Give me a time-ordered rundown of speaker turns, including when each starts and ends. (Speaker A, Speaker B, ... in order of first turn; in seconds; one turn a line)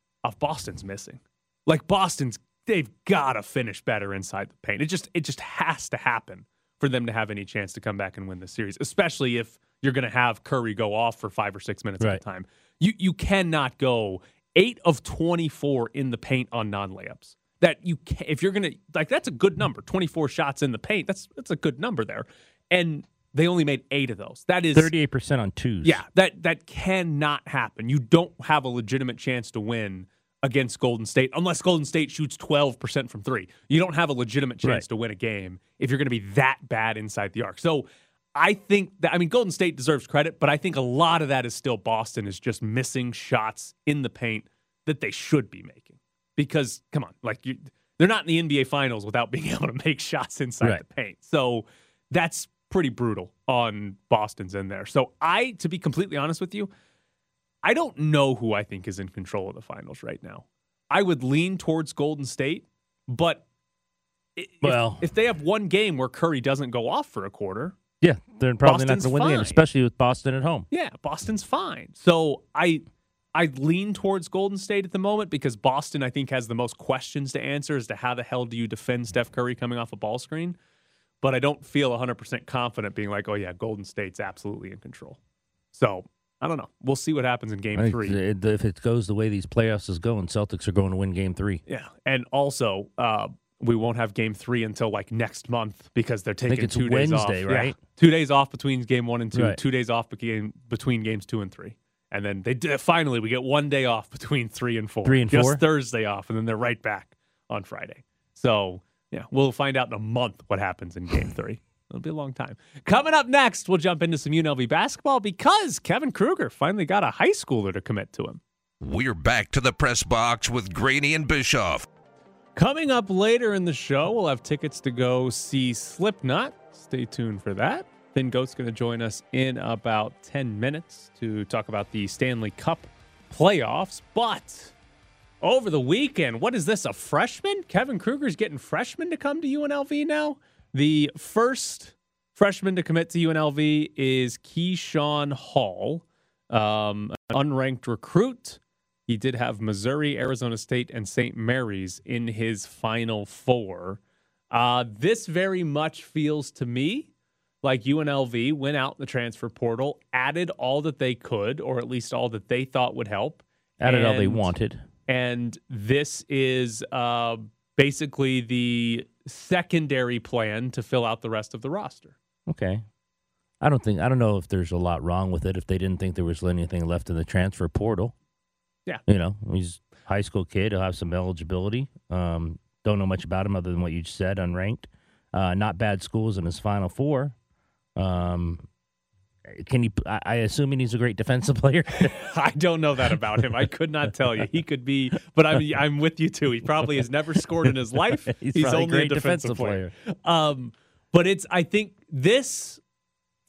Speaker A: 0.2-24.9
Speaker B: 24.7-26.0
Speaker A: 25.8-56.7
Speaker A: 57.6-63.4
Speaker A: 64.3-67.8
Speaker B: 64.6-65.0
Speaker B: 68.0-70.7
Speaker A: 68.6-69.6
Speaker A: 70.7-72.8
Speaker A: 73.3-80.6
Speaker A: 81.2-85.2
Speaker A: 85.7-88.2
Speaker B: 87.8-91.6
Speaker A: 91.7-118.4
Speaker B: 96.5-97.8
Speaker B: 99.3-99.6
Speaker B: 105.0-105.6
Speaker C: 118.8-121.8
Speaker A: 122.5-134.7
Speaker A: 135.4-154.0
Speaker A: 154.5-157.1
Speaker A: 157.6-164.5
Speaker B: 163.8-164.8
Speaker A: 165.1-172.1
Speaker B: 172.5-172.8
Speaker B: 173.6-178.1
Speaker B: 179.1-187.3
Speaker B: 187.9-188.7
Speaker B: 189.5-192.1
Speaker A: 192.1-202.8
Speaker B: 198.3-199.9